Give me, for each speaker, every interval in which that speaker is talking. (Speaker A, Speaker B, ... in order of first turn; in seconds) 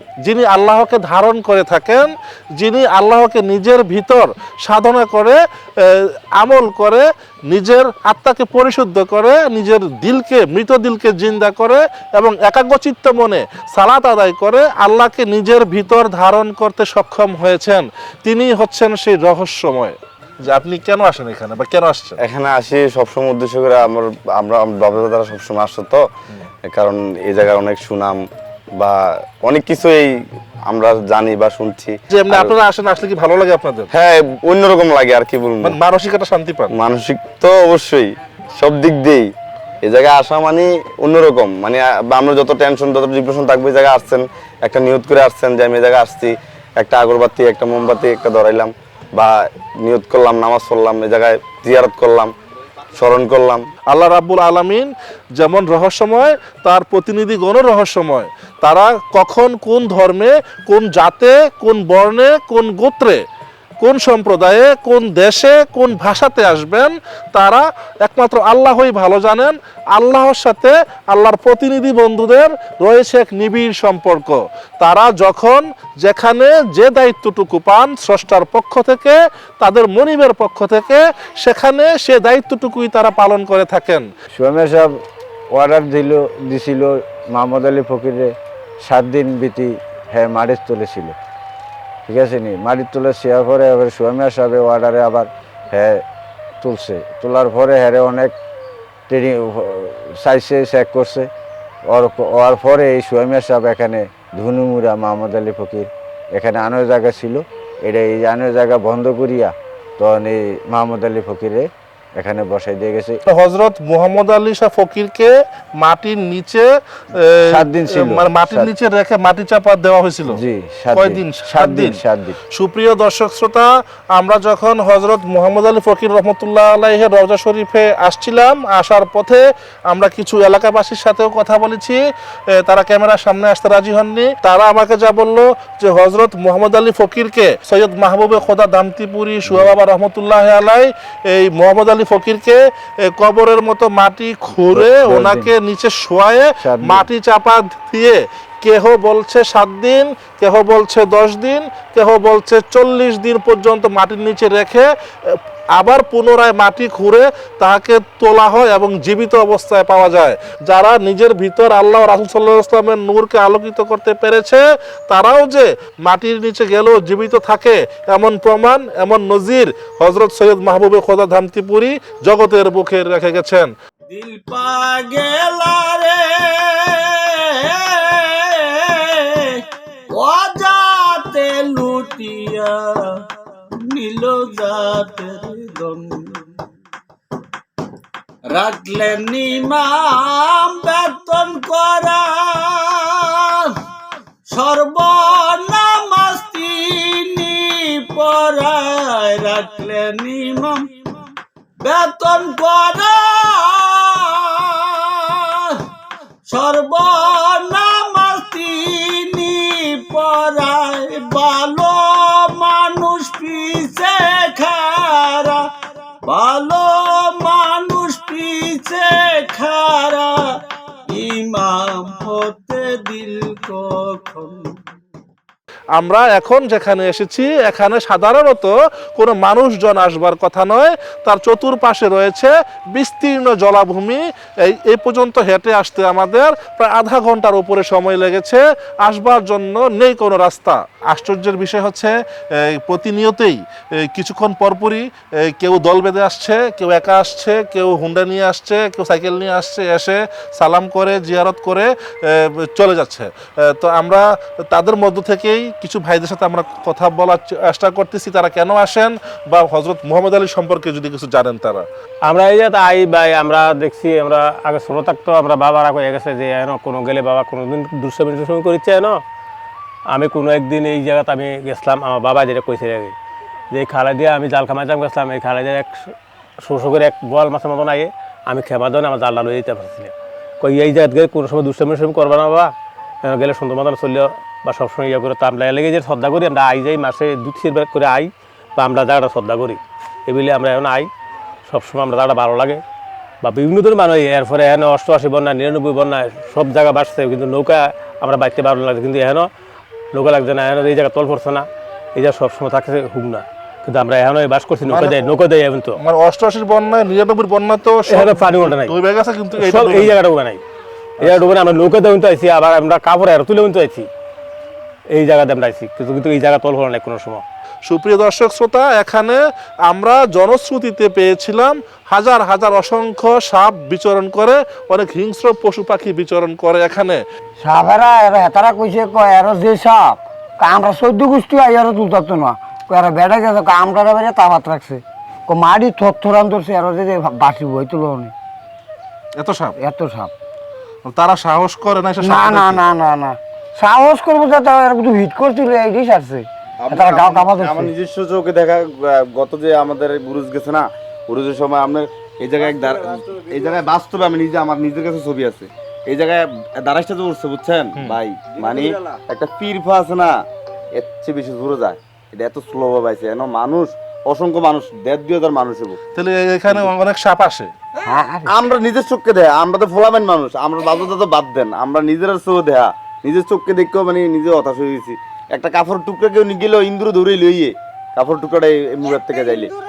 Speaker A: 0.2-22.1, 32.1-33.9, 35.6-36.7, 53.9-63.2, 63.8-84.1, 113.2-120.4, 120.9-122.0, 122.5-173.7, 225.9-261.9, 304.9-305.1, 306.0-310.2, 317.8-327.2, 339.4-339.7, 341.0-342.8, 357.9-358.2, 366.1-367.7
Speaker B: 22.2-26.0, 26.6-28.2, 28.8-30.1, 30.7-32.6, 33.9-35.8, 36.7-39.3, 39.8-52.3, 52.9-53.6, 346.8-360.4, 360.9-366.0, 368.4-379.7
Speaker C: 84.4-84.9, 85.5-91.1, 92.1-96.0, 96.6-98.3, 99.1-101.3, 101.9-113.2, 117.4-118.7, 120.2-122.4, 144.7-145.5, 146.6-147.1
Speaker D: 174.1-179.6, 180.1-183.0, 183.9-186.4, 188.5-193.8, 194.5-200.9, 201.8-205.8, 206.5-215.6, 216.2-220.4, 221.1-224.7
Speaker E: 262.2-269.2, 270.1-273.1, 273.7-291.1, 291.7-292.8, 293.4-299.5, 300.1-306.0, 308.1-309.0, 309.6-310.6, 311.2-314.1, 315.1-317.4
Speaker F: 327.6-338.3, 339.8-340.3, 342.2-347.9, 368.1-368.5